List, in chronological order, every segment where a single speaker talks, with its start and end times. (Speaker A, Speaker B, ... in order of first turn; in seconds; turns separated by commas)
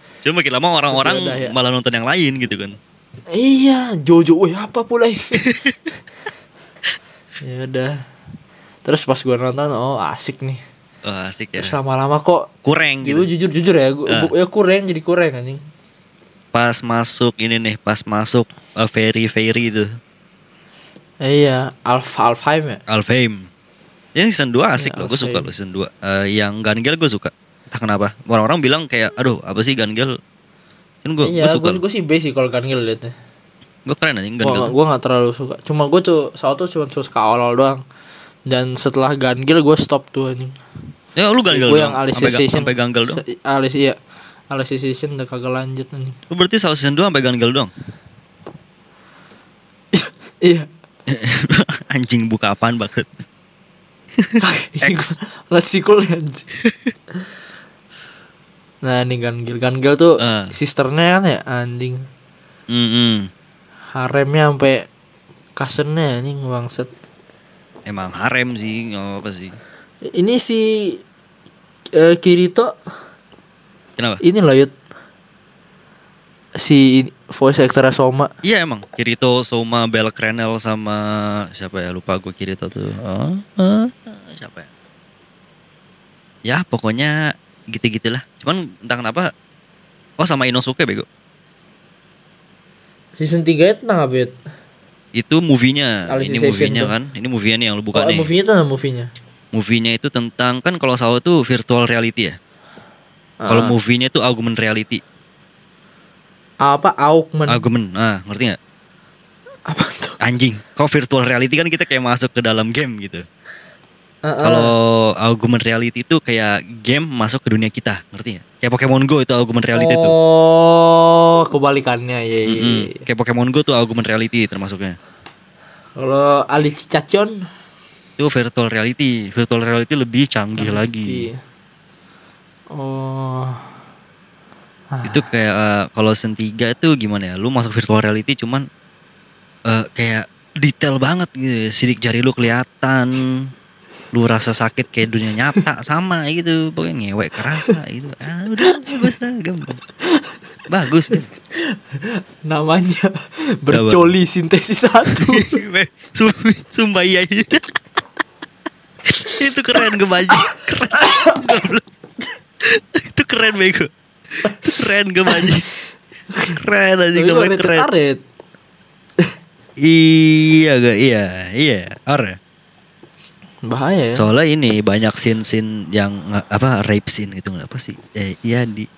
Speaker A: 0.2-2.8, Speaker B: 0.9-1.6, Speaker B: 3.3-5.6, Speaker A: 5.4-5.7, Speaker B: 7.4-7.9, Speaker B: 8.8-10.6, Speaker A: 11.1-11.8, Speaker B: 11.6-12.5, Speaker A: 12.7-13.3, Speaker B: 13.0-15.6, Speaker A: 16.5-19.9, Speaker B: 21.2-22.8, Speaker A: 22.9-23.5, Speaker A: 24.2-30.1, Speaker B: 24.8-25.5, Speaker A: 31.0-31.8, Speaker B: 31.2-33.1, Speaker A: 33.9-34.7, Speaker B: 34.4-37.8, Speaker B: 38.5-40.6, Speaker A: 41.2-43.2, Speaker B: 41.5-44.0, Speaker B: 44.5-46.2, Speaker A: 46.3-47.7, Speaker B: 49.9-50.7, Speaker A: 51.1-53.2, Speaker A: 54.2-55.1, Speaker B: 54.4-56.5, Speaker A: 56.6-56.9, Speaker B: 58.9-62.0, Speaker A: 60.2-60.5, Speaker A: 62.7-63.3, Speaker B: 64.0-64.8, Speaker B: 65.6-66.9, Speaker A: 67.9-69.6, Speaker B: 70.1-71.0, Speaker B: 72.0-72.7, Speaker B: 74.2-74.7, Speaker B: 76.6-78.3, Speaker A: 78.4-84.7, Speaker A: 86.5-89.3, Speaker A: 90.2-91.1, Speaker B: 93.2-94.3, Speaker A: 95.2-98.3, Speaker B: 96.1-96.9, Speaker B: 97.9-99.1, Speaker A: 99.5-102.4, Speaker B: 103.4-103.8, Speaker A: 103.5-105.0, Speaker B: 106.6-107.7, Speaker A: 107.5-108.6, Speaker B: 109.7-110.2, Speaker A: 110.2-113.2, Speaker B: 114.3-114.7, Speaker A: 114.4-120.2, Speaker B: 119.7-123.0, Speaker A: 122.5-125.0, Speaker B: 126.0-127.4, Speaker A: 128.2-131.3, Speaker B: 130.6-131.4, Speaker B: 132.7-133.7, Speaker B: 134.9-135.2, Speaker A: 135.1-138.7, Speaker A: 139.7-143.5, Speaker A: 144.1-149.8, Speaker B: 148.6-149.0, Speaker A: 150.7-151.3, Speaker B: 151.1-155.6, Speaker A: 153.7-154.2, Speaker A: 155.1-157.6, Speaker A: 159.1-161.8, Speaker B: 160.3-161.5, Speaker A: 162.6-165.7, Speaker B: 164.5-164.7, Speaker B: 165.3-165.6, Speaker B: 166.3-166.6, Speaker A: 166.6-167.9, Speaker B: 167.1-168.2, Speaker A: 169.8-172.4, Speaker B: 173.7-174.2, Speaker A: 174.2-178.9